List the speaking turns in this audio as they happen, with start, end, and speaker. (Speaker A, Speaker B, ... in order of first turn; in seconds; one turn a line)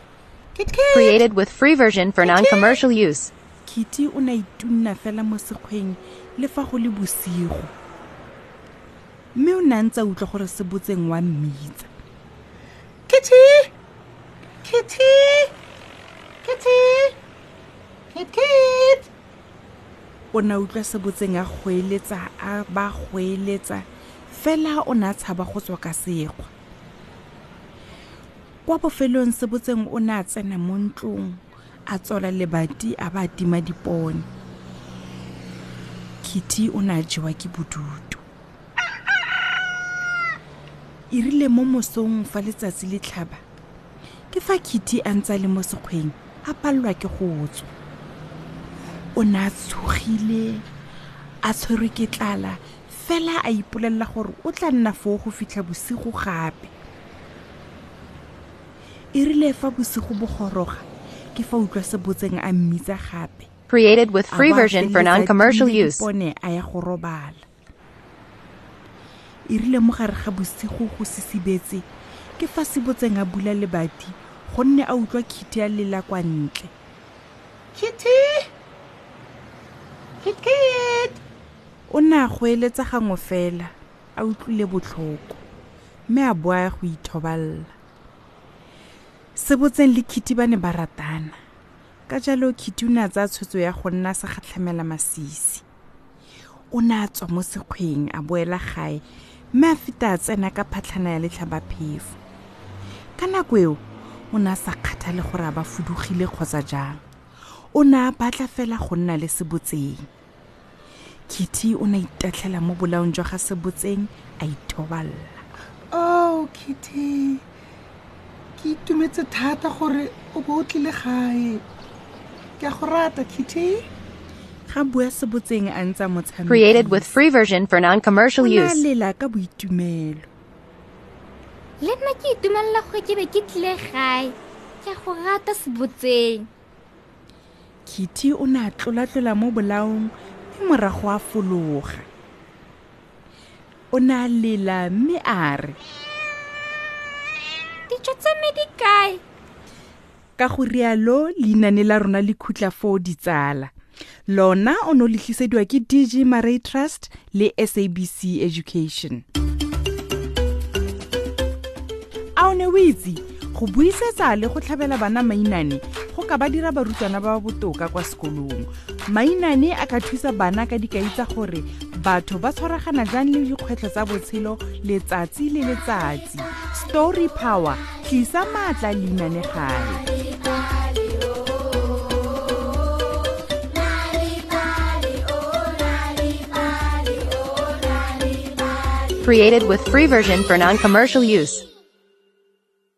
Speaker A: 0.6-1.2
Speaker B: 0.9-3.3
Speaker C: 3.7-7.7
Speaker C: 9.3-11.9
Speaker A: 13.1-13.7
Speaker A: 14.6-15.5
Speaker A: 16.4-17.1
Speaker A: 18.1-19.0
Speaker C: 20.3-26.5
Speaker C: 28.7-34.3
Speaker C: 36.2-38.2
Speaker C: 41.1-43.4
Speaker C: 44.3-47.7
Speaker C: 49.2-50.6
Speaker C: 51.5-56.7
Speaker C: 59.1-63.5
Speaker B: 63.7-66.0
Speaker C: 64.3-67.4
Speaker C: 69.5-71.8
Speaker C: 72.4-76.7
Speaker A: 77.8-78.3
Speaker A: 80.2-81.1
Speaker C: 81.9-85.4
Speaker C: 86.1-87.7
Speaker C: 89.4-91.4
Speaker C: 92.1-95.6
Speaker C: 96.7-102.2
Speaker C: 103.2-107.0
Speaker C: 107.8-110.1
Speaker C: 111.3-115.4
Speaker A: 115.9-117.4
Speaker A: 118.6-121.6
Speaker A: 122.6-123.8
Speaker C: 124.7-127.1
Speaker B: 126.5-128.8
Speaker C: 128.4-130.3
Speaker D: 131.8-136.5
Speaker C: 137.9-142.1
Speaker C: 143.9-145.8
Speaker D: 147.9-149.2
Speaker C: 150.4-153.7
Speaker C: 154.3-159.2
Speaker C: 162.4-180.1
Speaker D: 186.0-187.4
Speaker B: 189.2-191.7